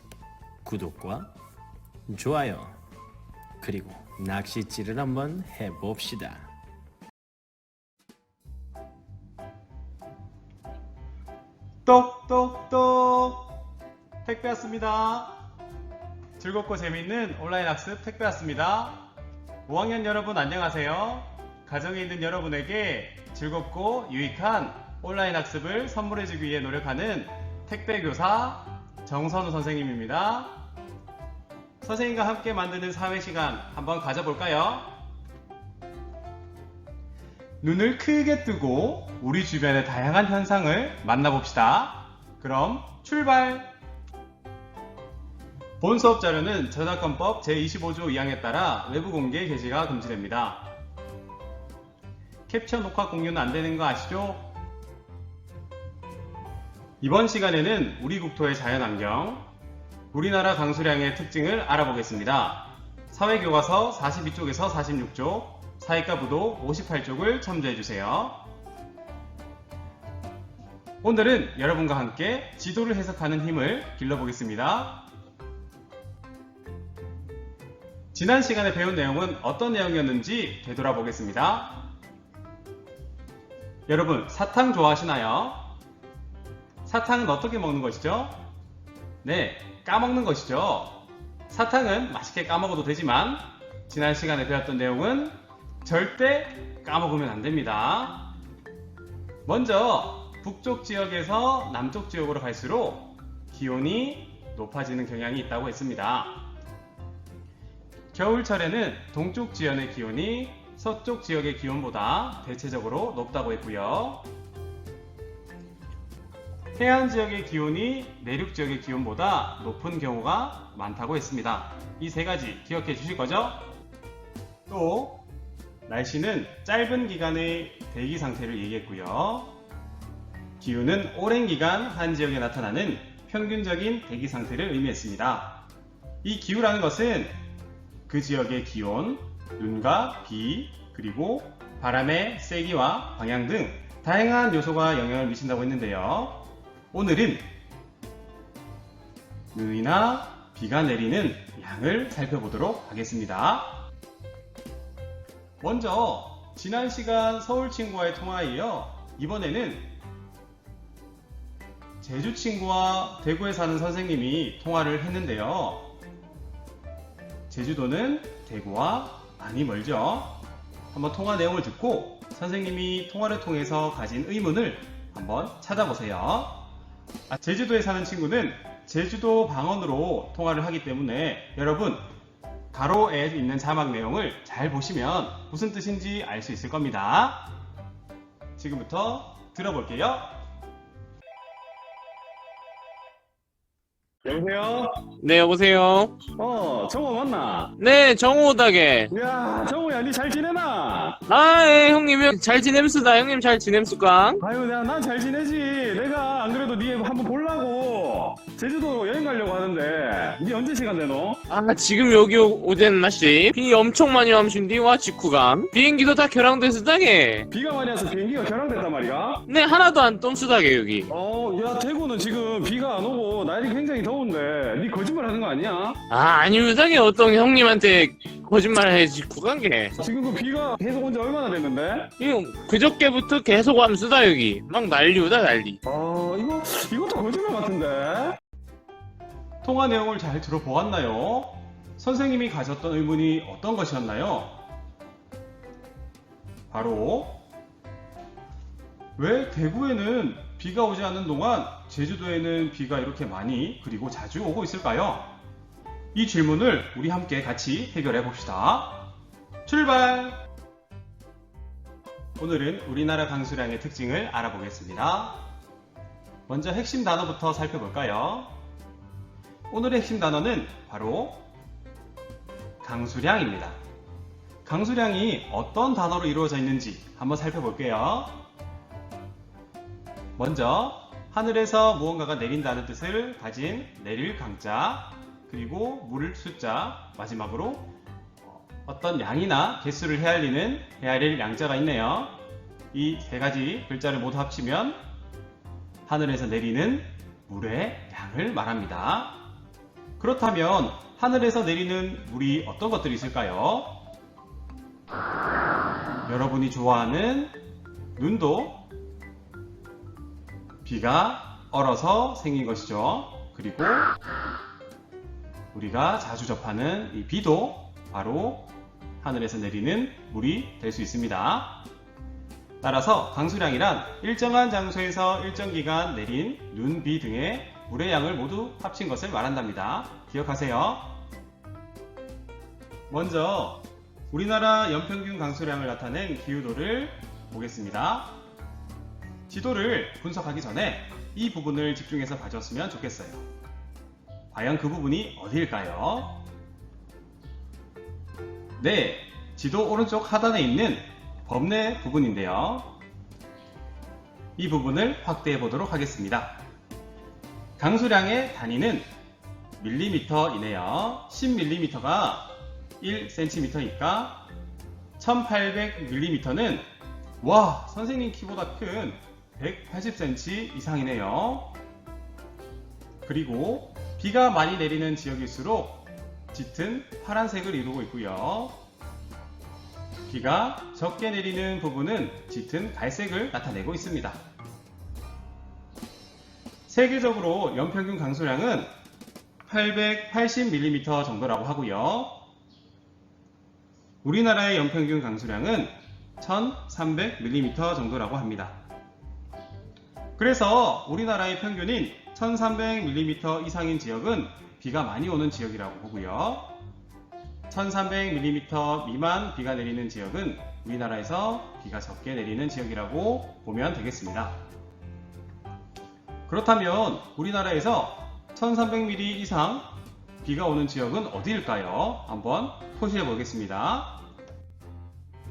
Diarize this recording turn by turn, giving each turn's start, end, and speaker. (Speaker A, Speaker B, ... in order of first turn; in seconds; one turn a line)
Speaker A: 0.6-1.3
Speaker A: 2.1-2.8
Speaker A: 3.6-6.5
Speaker B: 11.8-13.4
Speaker B: 14.2-15.4
Speaker B: 16.4-19.1
Speaker B: 19.6-30.6
Speaker B: 31.8-35.0
Speaker B: 37.6-43.7
Speaker B: 45.8-50.7
Speaker B: 52.5-54.5
Speaker B: 57.0-59.5
Speaker B: 60.1-68.5
Speaker B: 71.0-75.0
Speaker B: 78.1-81.8
Speaker B: 83.9-85.7
Speaker B: 86.8-88.4
Speaker B: 89.2-98.3
Speaker B: 99.5-106.5
Speaker B: 108.1-114.2
Speaker B: 116.7-123.7
Speaker B: 124.7-125.2
Speaker B: 125.8-129.5
Speaker B: 130.6-135.6
Speaker B: 136.2-137.4
Speaker B: 138.1-147.5
Speaker B: 149.5-153.8
Speaker B: 155.6-159.9
Speaker B: 162.0-165.9
Speaker B: 167.5-170.4
Speaker B: 170.9-176.7
Speaker B: 177.3-182.0
Speaker B: 182.7-187.5
Speaker B: 188.6-190.4
Speaker B: 194.3-194.6
Speaker C: 194.4-194.7
Speaker D: 195.2-196.2
Speaker C: 196.4-197.5
Speaker B: 197.1-197.7
Speaker D: 197.8-199.1
Speaker C: 199.1-201.1
Speaker B: 199.5-200.0
Speaker D: 201.3-204.4
Speaker C: 204.4-210.5
Speaker B: 204.5-206.9
Speaker B: 207.5-208.6
Speaker B: 209.4-211.4
Speaker D: 211.5-217.5
Speaker C: 217.5-218.5
Speaker B: 217.6-219.4
Speaker D: 219.5-221.1
Speaker B: 221.1-225.9
Speaker C: 222.0-224.2
Speaker D: 226.1-229.9
Speaker B: 230.0-232.1
Speaker D: 232.2-235.8
Speaker C: 235.9-238.2
Speaker B: 235.9-238.3
Speaker B: 239.6-244.6
Speaker B: 246.7-247.4
Speaker B: 249.2-255.4
Speaker B: 256.1-259.1
Speaker B: 259.6-260.4
Speaker B: 262.4-265.5
Speaker B: 266.5-268.6
Speaker B: 269.7-271.5
Speaker B: 272.8-273.8
Speaker B: 274.6-278.4
Speaker B: 280.4-287.9
Speaker B: 288.4-292.4
Speaker B: 292.9-295.0
Speaker B: 296.1-299.4
Speaker B: 300.2-304.0
Speaker B: 306.2-307.5
Speaker B: 308.1-308.8
Speaker B: 310.8-314.1
Speaker B: 315.7-321.8
Speaker B: 322.8-331.2
Speaker B: 333.1-338.4
Speaker B: 339.5-343.4
Speaker B: 344.5-346.4
Speaker B: 348.8-352.9
Speaker B: 354.6-356.6
Speaker B: 357.8-359.1
Speaker B: 359.8-364.5
Speaker B: 365.2-366.9
Speaker B: 367.4-371.7
Speaker B: 373.2-378.8
Speaker B: 380.3-384.4
Speaker B: 386.9-388.9
Speaker B: 389.6-392.4
Speaker B: 394.2-398.8
Speaker B: 400.4-406.7
Speaker B: 407.7-414.6
Speaker B: 416.5-419.9
Speaker B: 420.4-424.2